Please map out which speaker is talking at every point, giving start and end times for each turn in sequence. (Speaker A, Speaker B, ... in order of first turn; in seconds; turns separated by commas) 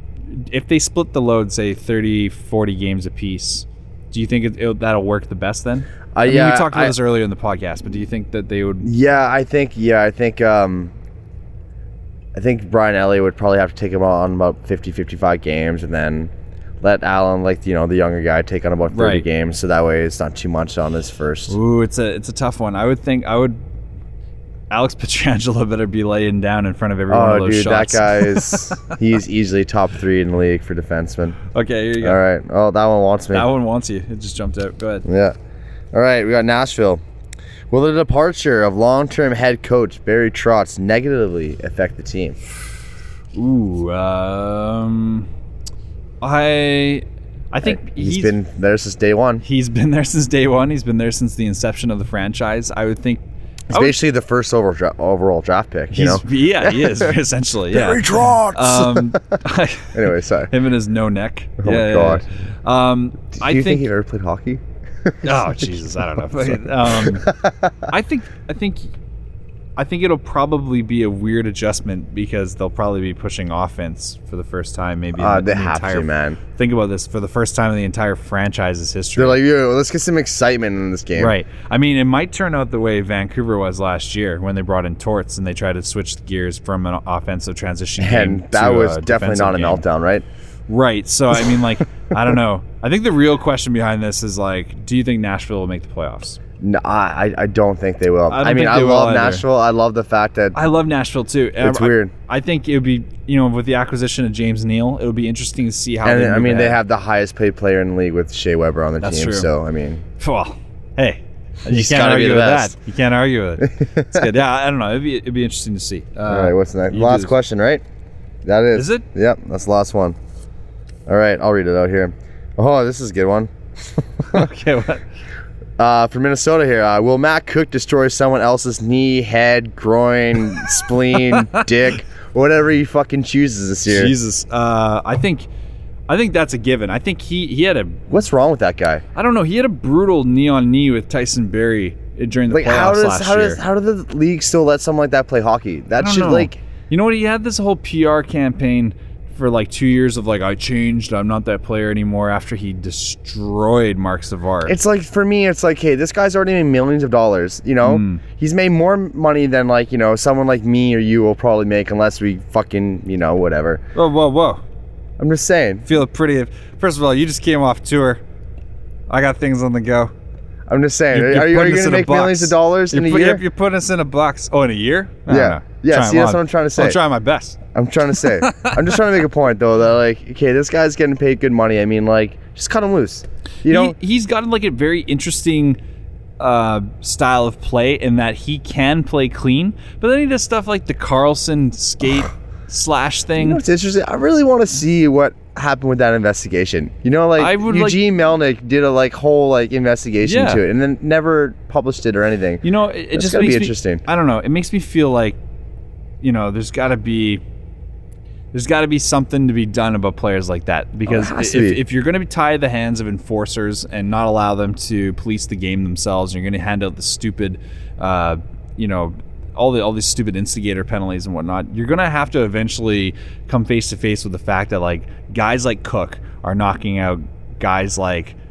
Speaker A: 0.3-8.9, Speaker B: 6.1-7.0, Speaker B: 8.8-10.9, Speaker B: 12.3-21.6, Speaker A: 18.9-19.2, Speaker A: 21.5-23.6, Speaker A: 24.7-28.9, Speaker B: 27.1-31.4, Speaker A: 31.5-32.2, Speaker B: 32.0-33.5, Speaker A: 33.3-35.1, Speaker B: 35.0-35.4, Speaker B: 35.9-37.0, Speaker B: 37.7-42.4, Speaker A: 43.3-45.3, Speaker A: 46.2-48.4, Speaker B: 47.6-49.4, Speaker A: 49.4-54.0, Speaker B: 53.7-57.1, Speaker A: 55.9-63.9, Speaker B: 57.7-59.4, Speaker B: 59.9-60.5, Speaker B: 61.6-62.2, Speaker B: 63.4-65.7, Speaker A: 65.2-67.3, Speaker B: 66.5-67.7, Speaker A: 67.9-68.9, Speaker A: 69.8-79.4, Speaker B: 75.2-76.4, Speaker B: 79.2-81.3, Speaker A: 81.2-89.8, Speaker B: 88.0-90.2, Speaker A: 90.7-96.4, Speaker B: 96.6-100.6, Speaker A: 98.3-99.5, Speaker A: 100.5-106.8, Speaker B: 101.6-102.1, Speaker B: 106.0-110.0, Speaker A: 109.0-109.5, Speaker A: 110.2-117.3, Speaker B: 111.7-112.8, Speaker B: 113.7-114.3, Speaker B: 116.3-117.8, Speaker B: 118.5-120.2, Speaker A: 118.7-119.0, Speaker B: 121.1-124.5, Speaker A: 124.3-125.0, Speaker B: 125.8-134.1, Speaker A: 131.1-131.7, Speaker A: 133.9-135.5, Speaker A: 136.1-138.1, Speaker B: 138.1-139.0, Speaker A: 139.2-143.6, Speaker B: 142.5-146.6, Speaker A: 146.0-154.8, Speaker B: 154.7-163.8, Speaker A: 157.8-158.2, Speaker A: 163.9-164.6, Speaker B: 165.2-165.9, Speaker A: 165.9-168.2, Speaker A: 169.1-170.1, Speaker B: 170.7-173.4, Speaker A: 171.1-177.6, Speaker B: 175.3-177.0, Speaker B: 177.7-184.0, Speaker A: 178.1-178.9, Speaker A: 183.7-185.8, Speaker A: 186.4-193.6, Speaker B: 193.4-204.0, Speaker A: 197.4-198.0, Speaker A: 200.2-200.6, Speaker A: 202.6-205.4, Speaker A: 206.2-207.4, Speaker A: 208.5-228.4, Speaker B: 211.1-211.8